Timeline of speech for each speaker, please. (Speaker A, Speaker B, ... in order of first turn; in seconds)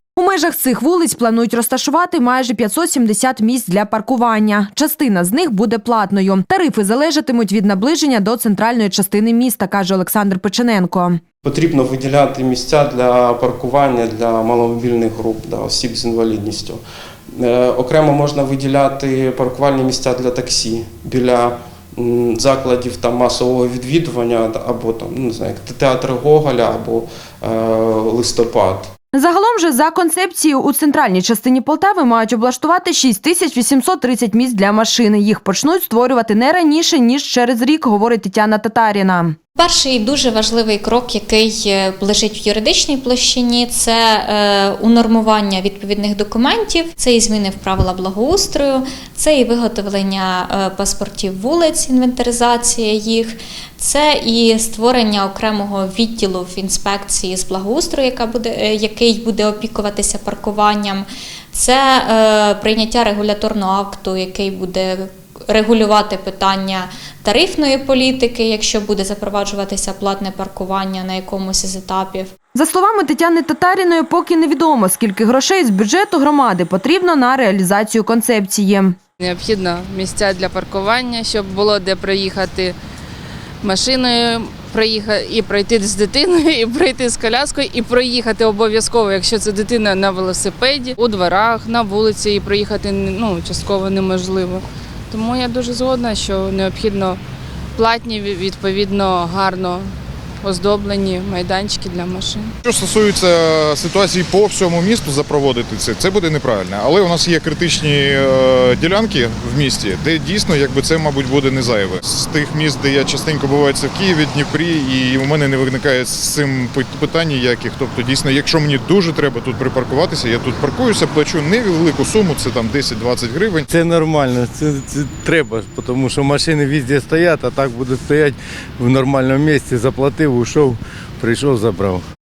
Speaker A: 0.1-11.2, 29.1-39.4, 72.5-78.9
Speaker B: 11.4-16.8, 17.3-28.9
Speaker C: 39.5-72.3
Speaker D: 79.2-82.7, 83.6-97.2, 97.8-99.9, 100.4-102.5
Speaker E: 102.6-123.7
Speaker F: 123.7-132.0